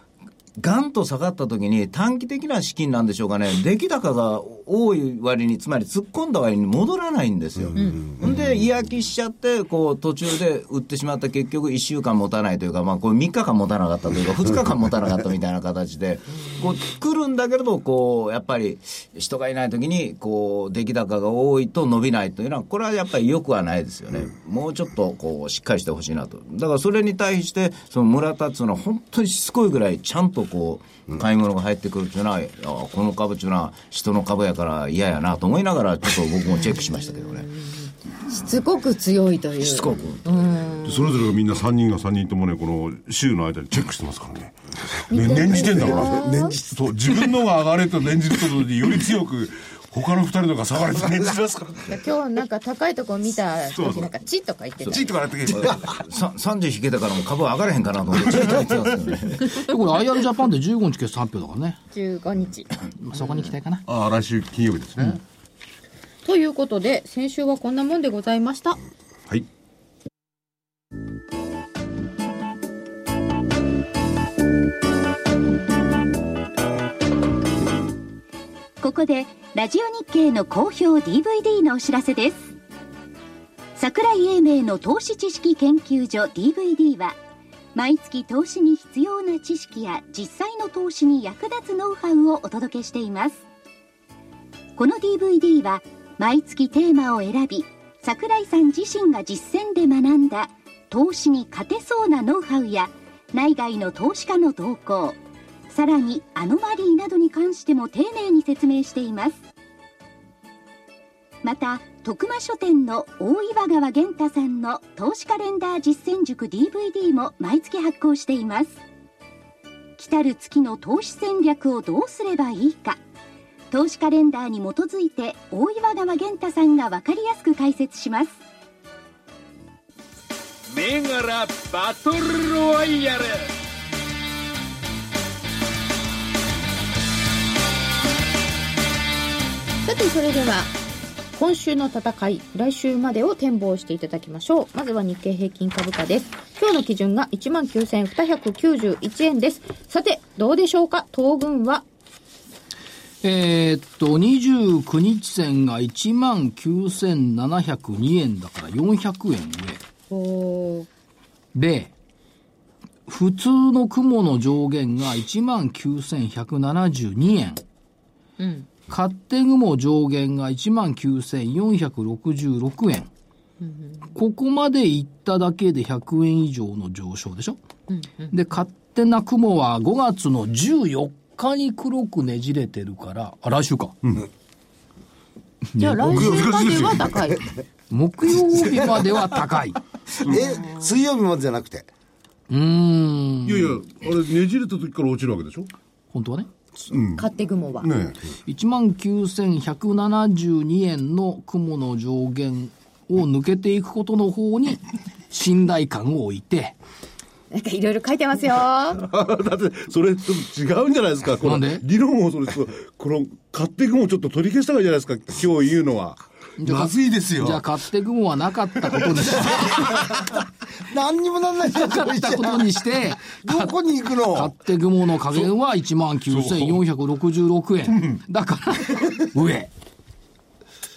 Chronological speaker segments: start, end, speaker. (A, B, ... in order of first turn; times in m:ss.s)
0:00.6-0:37.5 A
0:36.5-0:41.2 B
0:39.6-0:40.2 A
0:40.8-0:44.5 C
0:45.1-0:52.0 C
0:45.1-0:46.5 B
0:45.5-0:46.8 D
0:51.9-0:55.1 B
0:53.7-0:54.1 C
0:54.8-0:55.9 C
0:54.8-0:59.7 A
0:58.3-0:58.9 C
0:59.6-1:01.8 E
1:01.9-1:03.5 B
1:03.0-1:03.8 E
1:03.9-1:05.2 C
1:06.2-1:08.8 B
1:18.8-1:22.5 F
1:23.8-1:27.2 F
1:27.7-1:33.4 F
1:34.8-1:45.2 F
1:45.7-1:49.4 F
1:51.4-1:58.8 F
2:00.0-2:03.0 F
2:03.7-2:08.4 F
2:10.7-2:13.5 G
2:19.8-2:20.8 B
2:21.3-2:31.8 B
2:33.2-2:39.8 E
2:40.1-2:40.9 B
2:41.5-2:41.9 E
2:43.1-2:47.6 E
2:48.4-2:48.7 B
2:48.9-2:53.1 E
2:53.6-2:54.1 B
2:54.1-2:57.6 E
2:57.9-2:58.3 B
2:58.3-3:04.0 E
3:05.7-3:06.4 E
3:05.8-3:07.5 B
3:06.0-3:07.2 C
3:07.9-3:09.8 E
3:10.2-3:10.5 C
3:10.2-3:11.9 D
3:12.5-3:13.8 E
3:13.4-3:15.7 C
3:16.1-3:16.5 E
3:16.9-3:17.3 C
3:17.1-3:17.9 B
3:17.8-3:18.2 C
3:18.4-3:26.7 E
3:27.5-3:29.0 B
3:28.9-3:37.6 C
3:31.4-3:31.8 E
3:36.6-3:40.0 E
3:39.7-3:40.0 C
3:40.8-3:42.8 D
3:41.7-3:49.7 E
3:43.3-3:44.5 D
3:46.3-3:46.8 C